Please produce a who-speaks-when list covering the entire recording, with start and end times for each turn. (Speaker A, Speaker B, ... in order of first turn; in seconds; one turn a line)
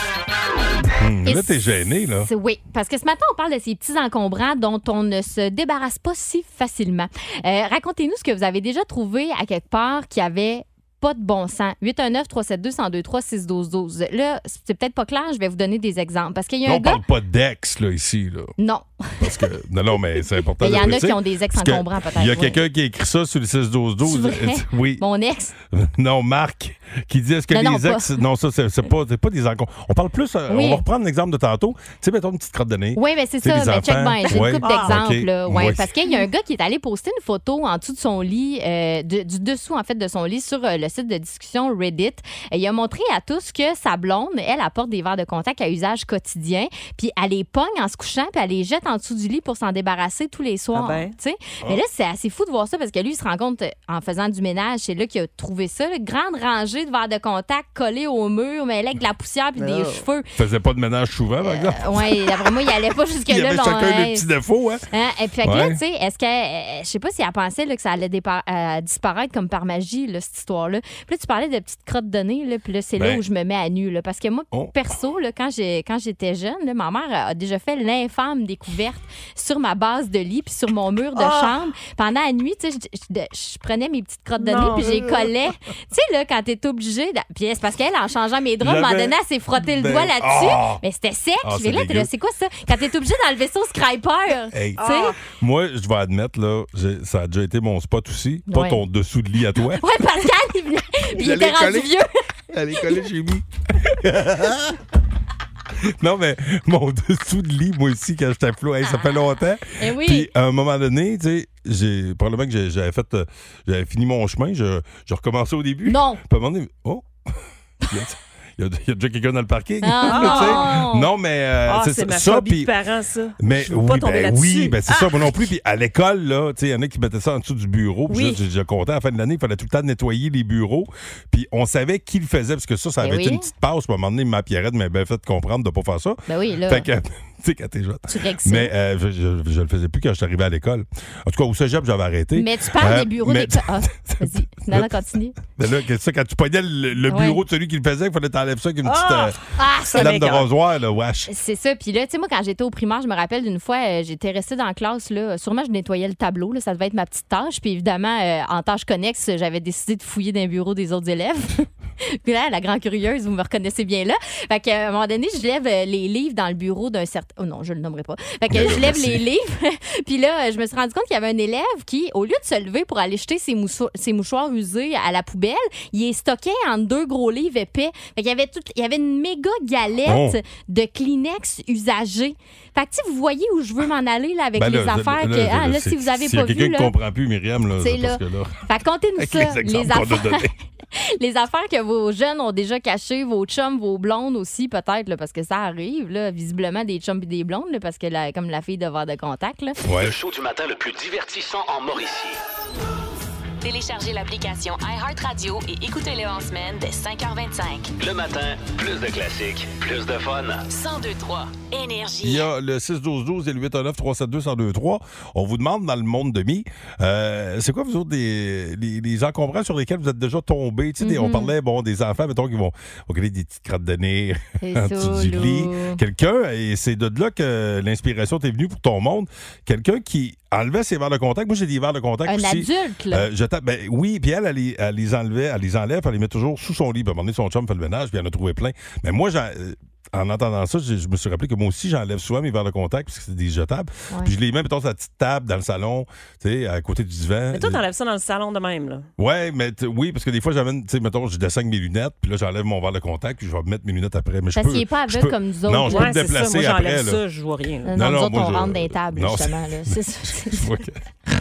Speaker A: 1.0-2.3
Speaker B: 1.2-1.6
Speaker B: 2.2-17.0
Speaker A: 16.6-18.5
Speaker B: 18.6-19.5
Speaker A: 19.2-25.0
Speaker B: 20.6-22.6
Speaker B: 24.0-25.5
Speaker A: 25.7-35.9
Speaker B: 27.5-28.2
Speaker B: 30.5-30.8
Speaker B: 33.0-60.2
Speaker C: 34.2-35.0
Speaker C: 50.7-51.1
Speaker C: 59.6-60.0
Speaker A: 60.4-62.5
Speaker B: 61.4-64.2
Speaker A: 63.3-64.8
Speaker B: 64.9-95.1
Speaker A: 65.4-65.8
Speaker A: 73.0-73.2
Speaker C: 81.2-81.5
Speaker C: 84.4-85.0
Speaker A: 84.7-85.2
Speaker A: 88.6-90.8
Speaker A: 91.4-92.1
Speaker A: 94.5-99.8
Speaker C: 94.8-95.1
Speaker B: 98.5-98.8
Speaker B: 99.8-102.1
Speaker A: 101.1-104.8
Speaker A: 105.8-117.1
Speaker B: 109.8-110.3
Speaker B: 115.8-116.2
Speaker A: 117.9-122.7
Speaker B: 119.8-121.1
Speaker C: 120.0-120.8
Speaker C: 121.7-125.3
Speaker A: 123.4-144.9
Speaker C: 128.1-128.4
Speaker B: 133.0-133.5
Speaker B: 136.3-136.9
Speaker B: 138.1-138.7
Speaker B: 142.3-145.4
Speaker A: 145.5-149.4
Speaker B: 147.1-147.4
Speaker C: 148.8-150.5
Speaker B: 149.6-150.1
Speaker A: 149.9-151.3
Speaker B: 151.3-186.9
Speaker A: 168.5-169.2
Speaker A: 180.1-180.4
Speaker A: 184.6-188.6
Speaker B: 187.8-199.8
Speaker A: 189.2-190.5
Speaker A: 199.8-200.1
Speaker D: 199.9-202.4
Speaker E: 203.6-207.9
Speaker D: 208.0-210.6
Speaker E: 210.7-212.5
Speaker A: 212.2-247.8
Speaker B: 221.0-221.5
Speaker B: 224.6-226.0
Speaker B: 232.2-233.3
Speaker C: 247.5-249.1
Speaker A: 249.2-257.2
Speaker B: 254.5-256.1
Speaker C: 255.9-257.9
Speaker B: 257.9-260.7
Speaker A: 257.9-261.1